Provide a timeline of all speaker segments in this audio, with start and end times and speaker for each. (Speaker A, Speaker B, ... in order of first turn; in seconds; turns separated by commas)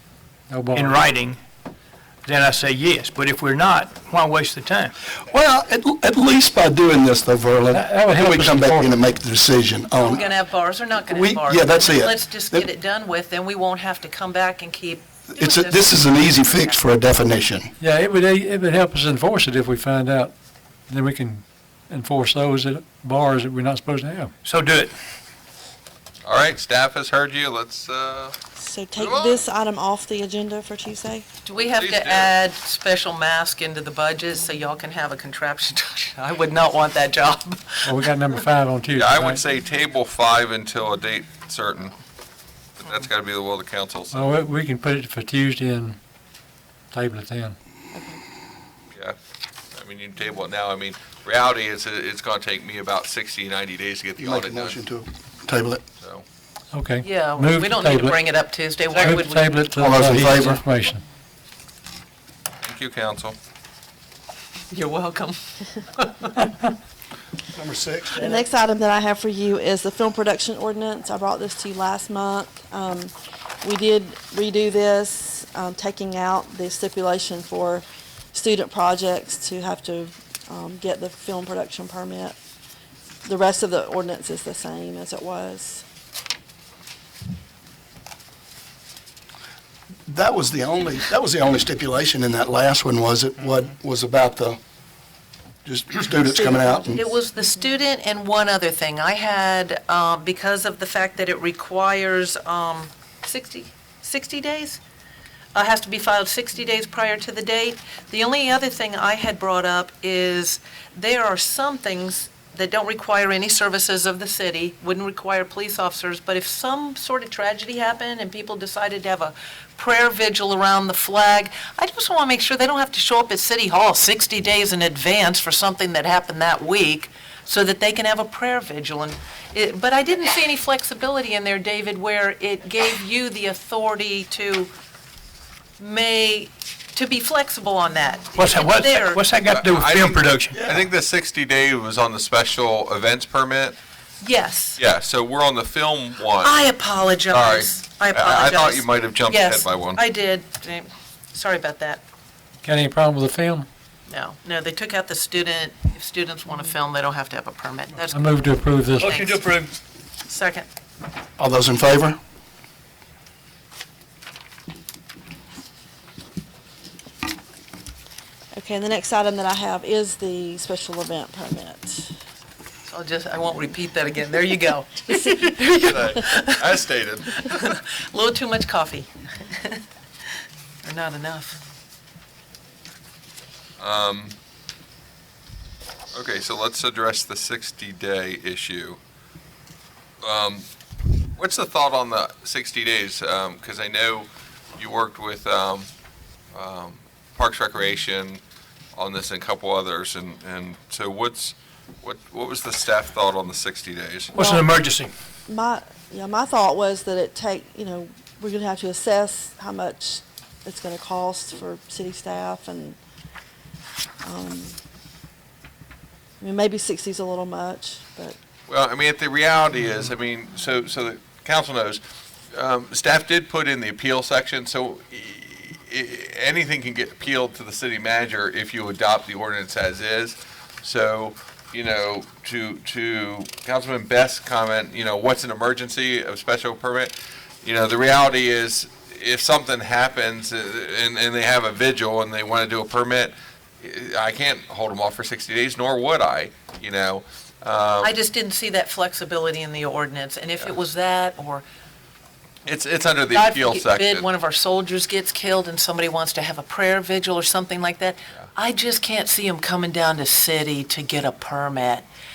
Speaker A: 0.5-1.0, Speaker B: 0.7-1.4, Speaker B: 2.2-4.9, Speaker C: 5.3-10.2, Speaker A: 7.7-9.1, Speaker D: 10.0-16.8, Speaker C: 11.1-12.7, Speaker C: 15.3-17.7, Speaker A: 17.8-20.3, Speaker A: 20.9-24.3, Speaker B: 24.4-24.9, Speaker E: 26.2-28.4, Speaker F: 28.6-31.2, Speaker E: 29.0-29.4, Speaker D: 31.4-38.4, Speaker E: 31.8-32.4, Speaker A: 37.8-39.4, Speaker E: 38.9-41.9, Speaker E: 42.8-44.2, Speaker A: 44.1-46.0, Speaker A: 46.9-47.5, Speaker F: 47.9-48.2, Speaker E: 49.7-54.8, Speaker C: 54.2-55.8, Speaker E: 56.0-56.2, Speaker A: 56.7-58.2, Speaker D: 57.0-59.7, Speaker A: 59.0-61.0, Speaker C: 59.8-60.6, Speaker E: 62.6-63.4, Speaker D: 64.7-65.4, Speaker D: 65.9-66.5, Speaker C: 67.5-68.4, Speaker F: 68.2-82.3, Speaker F: 83.2-85.8, Speaker C: 90.1-94.6, Speaker C: 95.6-97.0, Speaker F: 96.3-97.1, Speaker D: 96.9-104.8, Speaker D: 105.5-134.7, Speaker D: 135.8-139.2, Speaker B: 138.3-140.6, Speaker E: 139.4-143.8, Speaker C: 140.5-140.8, Speaker D: 144.2-144.8, Speaker E: 144.8-146.7, Speaker D: 146.4-152.0, Speaker E: 147.3-150.0, Speaker A: 152.6-153.7, Speaker D: 154.1-159.6, Speaker A: 158.1-159.3, Speaker B: 159.1-159.7, Speaker D: 160.2-160.7, Speaker C: 161.4-162.2, Speaker F: 168.5-172.1, Speaker D: 172.9-179.8, Speaker E: 175.8-177.7, Speaker D: 180.8-181.6, Speaker E: 183.8-184.3, Speaker E: 186.1-189.0, Speaker E: 190.2-190.7, Speaker E: 191.4-195.9, Speaker E: 196.5-198.4, Speaker E: 198.9-204.3, Speaker B: 204.3-205.1, Speaker F: 204.4-204.7, Speaker F: 205.5-213.0, Speaker F: 214.2-214.8, Speaker F: 216.4-218.4, Speaker E: 218.7-222.0, Speaker E: 222.5-237.1, Speaker E: 237.6-248.1, Speaker D: 248.0-251.6, Speaker E: 252.7-254.2, Speaker D: 253.3-262.1